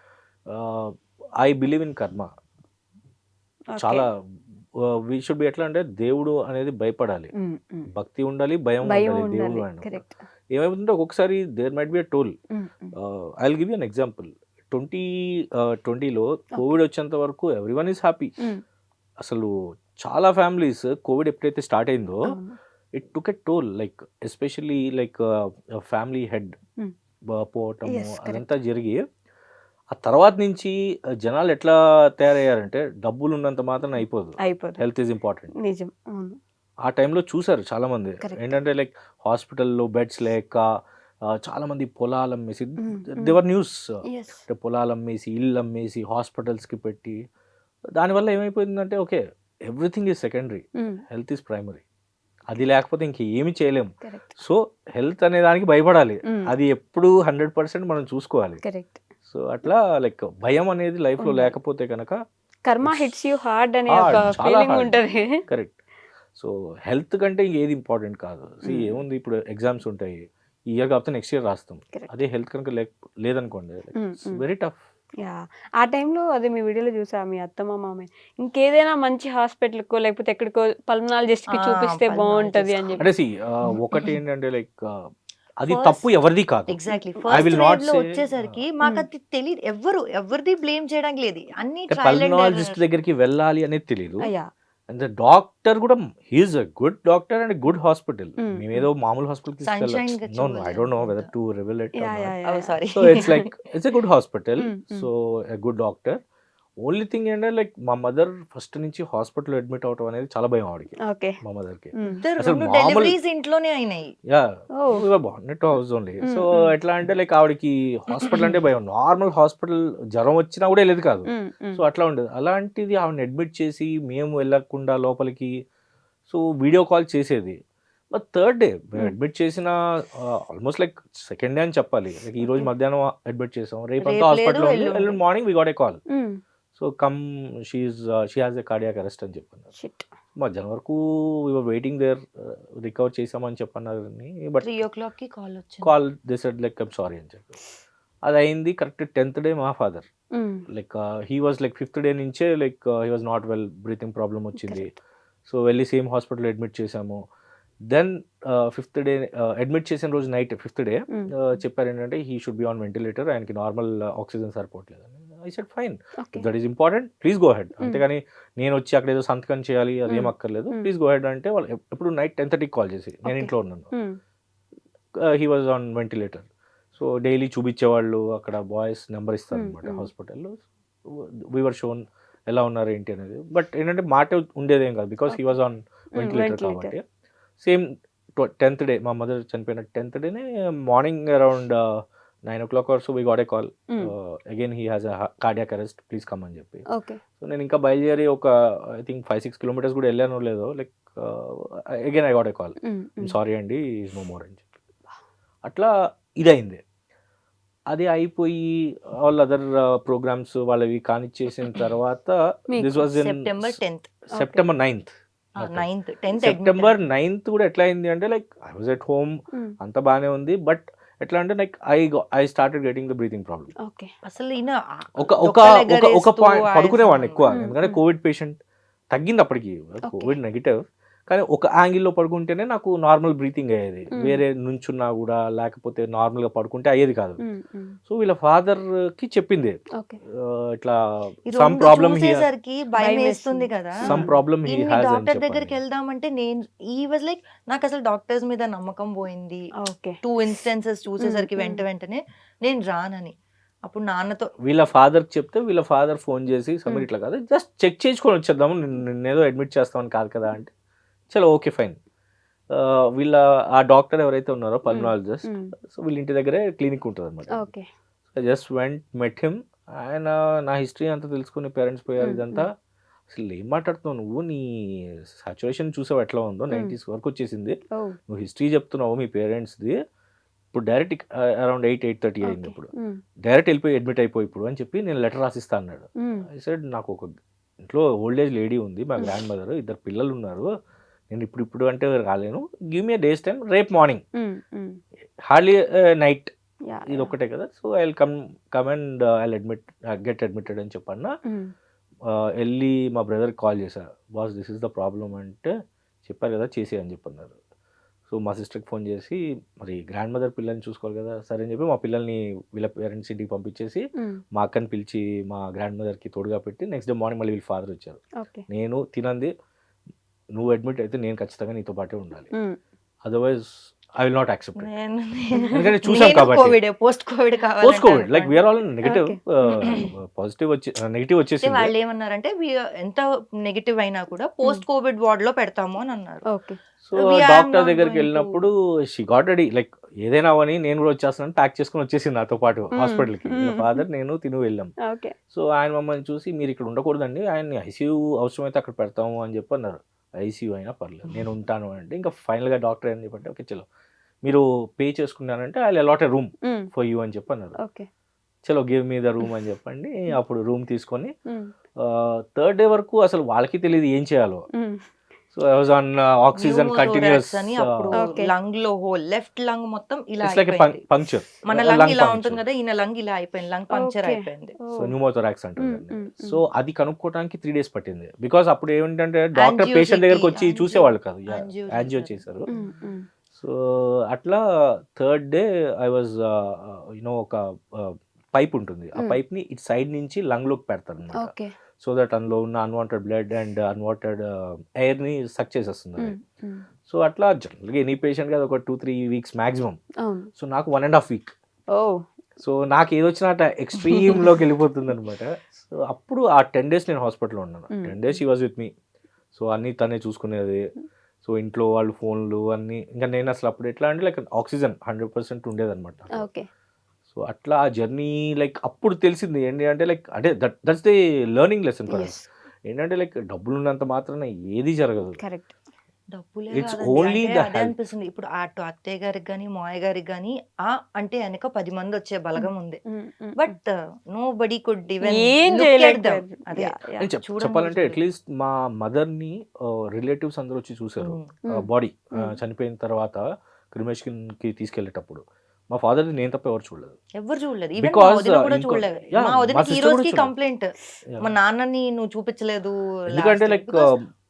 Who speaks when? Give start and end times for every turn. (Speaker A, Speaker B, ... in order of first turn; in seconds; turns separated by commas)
Speaker A: 0.5-2.3, Speaker B: 3.7-4.0, Speaker A: 3.8-4.2, Speaker A: 4.8-7.3, Speaker B: 7.3-7.9, Speaker A: 7.9-12.3, Speaker B: 8.8-10.2, Speaker B: 12.5-12.9, Speaker A: 12.9-18.3, Speaker A: 19.2-22.4, Speaker B: 22.2-22.6, Speaker A: 22.9-26.6, Speaker A: 27.3-29.0, Speaker B: 27.9-28.5, Speaker A: 29.9-35.5, Speaker B: 34.4-34.8, Speaker B: 35.6-36.4, Speaker A: 36.8-40.7, Speaker B: 38.2-38.6, Speaker A: 41.2-47.2, Speaker B: 42.8-43.4, Speaker B: 44.0-44.4, Speaker A: 47.9-51.8, Speaker B: 50.8-51.0, Speaker A: 52.5-58.6, Speaker B: 54.0-54.4, Speaker B: 56.2-56.5, Speaker B: 58.6-59.0, Speaker A: 59.2-62.2, Speaker B: 61.2-61.5, Speaker B: 62.6-65.4, Speaker A: 62.8-63.1, Speaker A: 63.9-65.8, Speaker A: 66.3-74.8, Speaker B: 68.6-69.0, Speaker B: 74.0-74.4, Speaker B: 75.2-83.0, Speaker C: 81.5-83.0, Speaker A: 83.0-88.6, Speaker C: 85.7-86.1, Speaker C: 86.7-92.8, Speaker B: 86.9-87.5, Speaker A: 91.9-94.3, Speaker B: 94.2-94.5, Speaker A: 94.9-102.3, Speaker B: 98.4-98.9, Speaker C: 99.6-101.3, Speaker B: 102.0-103.4, Speaker C: 102.4-103.5, Speaker A: 102.9-106.2, Speaker B: 104.6-105.1, Speaker A: 106.8-113.2, Speaker B: 111.0-111.4, Speaker B: 111.9-112.2, Speaker C: 112.2-114.1, Speaker A: 114.3-125.6, Speaker B: 114.8-115.0, Speaker B: 116.2-116.7, Speaker B: 121.3-121.8, Speaker A: 126.3-127.6, Speaker A: 128.1-136.0, Speaker B: 132.4-132.7, Speaker C: 134.0-135.2, Speaker B: 136.1-136.4, Speaker A: 136.7-139.7, Speaker B: 139.8-140.1, Speaker A: 140.3-144.8, Speaker C: 144.6-145.9, Speaker A: 145.8-147.6, Speaker A: 148.2-150.1, Speaker B: 150.3-150.6, Speaker A: 150.7-154.9, Speaker B: 154.6-154.9, Speaker A: 155.4-157.2, Speaker A: 157.9-173.9, Speaker B: 170.1-170.9, Speaker B: 173.2-174.2, Speaker A: 175.2-187.0, Speaker B: 179.5-180.1, Speaker B: 185.3-185.6, Speaker B: 186.1-186.9, Speaker A: 187.6-196.9, Speaker B: 196.9-197.2, Speaker A: 197.4-204.7, Speaker B: 202.8-203.3, Speaker A: 205.6-206.8, Speaker A: 207.9-215.8, Speaker B: 212.7-213.1, Speaker C: 213.2-214.1, Speaker B: 214.3-214.6, Speaker C: 215.6-216.9, Speaker A: 216.4-223.7, Speaker B: 223.8-224.1, Speaker C: 224.2-227.4, Speaker A: 225.2-228.6, Speaker B: 227.5-228.0, Speaker A: 229.1-237.4, Speaker B: 230.1-230.3, Speaker B: 234.1-234.4, Speaker B: 237.4-238.0, Speaker A: 238.1-242.4, Speaker B: 239.9-240.2, Speaker C: 241.5-249.7, Speaker B: 243.0-244.3, Speaker A: 244.0-245.8, Speaker B: 249.8-250.2, Speaker C: 250.2-254.5, Speaker B: 251.2-251.8, Speaker A: 254.6-260.7, Speaker A: 261.3-262.0, Speaker A: 262.7-267.7, Speaker B: 264.9-265.7, Speaker B: 267.5-267.9, Speaker A: 268.3-272.7, Speaker B: 272.2-272.6, Speaker A: 273.3-280.0, Speaker A: 280.7-282.9, Speaker B: 282.4-283.2, Speaker A: 283.4-290.7, Speaker B: 286.2-286.4, Speaker A: 291.3-294.2, Speaker B: 294.3-295.0, Speaker A: 295.5-296.5, Speaker B: 296.9-297.3, Speaker A: 297.1-301.3, Speaker B: 301.4-301.7, Speaker A: 302.3-305.7, Speaker A: 306.2-307.6, Speaker A: 308.3-319.5, Speaker B: 314.1-314.4, Speaker B: 318.4-318.6, Speaker A: 320.5-322.5, Speaker B: 322.5-322.8, Speaker A: 323.2-324.9, Speaker C: 324.8-328.6, Speaker A: 325.7-326.8, Speaker A: 327.8-331.9, Speaker B: 329.0-329.8, Speaker C: 329.8-330.1, Speaker C: 331.6-336.4, Speaker B: 336.5-336.8, Speaker A: 337.0-344.9, Speaker C: 337.1-338.6, Speaker B: 342.9-344.0, Speaker B: 345.0-345.3, Speaker A: 345.5-353.9, Speaker A: 354.4-357.8, Speaker B: 356.6-356.9, Speaker B: 357.8-358.1, Speaker A: 358.6-361.3, Speaker B: 361.4-361.7, Speaker A: 362.0-364.6, Speaker B: 364.7-365.0, Speaker A: 365.5-368.2, Speaker C: 366.6-371.0, Speaker B: 368.1-368.5, Speaker A: 370.4-372.6, Speaker C: 371.6-374.8, Speaker B: 373.9-375.1, Speaker A: 374.9-382.7, Speaker B: 375.8-376.6, Speaker C: 379.6-382.9, Speaker B: 382.7-383.3, Speaker A: 383.5-396.4, Speaker B: 391.4-391.7, Speaker B: 396.2-396.8, Speaker A: 397.1-400.0, Speaker B: 400.2-400.5, Speaker A: 400.6-401.5, Speaker B: 401.9-402.2, Speaker A: 402.6-408.9, Speaker B: 407.9-408.4, Speaker A: 409.5-410.8, Speaker A: 411.4-416.5, Speaker B: 416.3-416.7, Speaker A: 417.3-425.4, Speaker B: 422.1-422.4, Speaker B: 425.3-425.7, Speaker C: 426.3-433.0, Speaker A: 426.7-427.9, Speaker B: 432.6-433.7, Speaker C: 433.6-438.2, Speaker B: 435.2-437.3, Speaker A: 437.2-447.2, Speaker C: 441.2-441.5, Speaker C: 447.3-454.1, Speaker A: 448.0-450.5, Speaker A: 453.3-454.3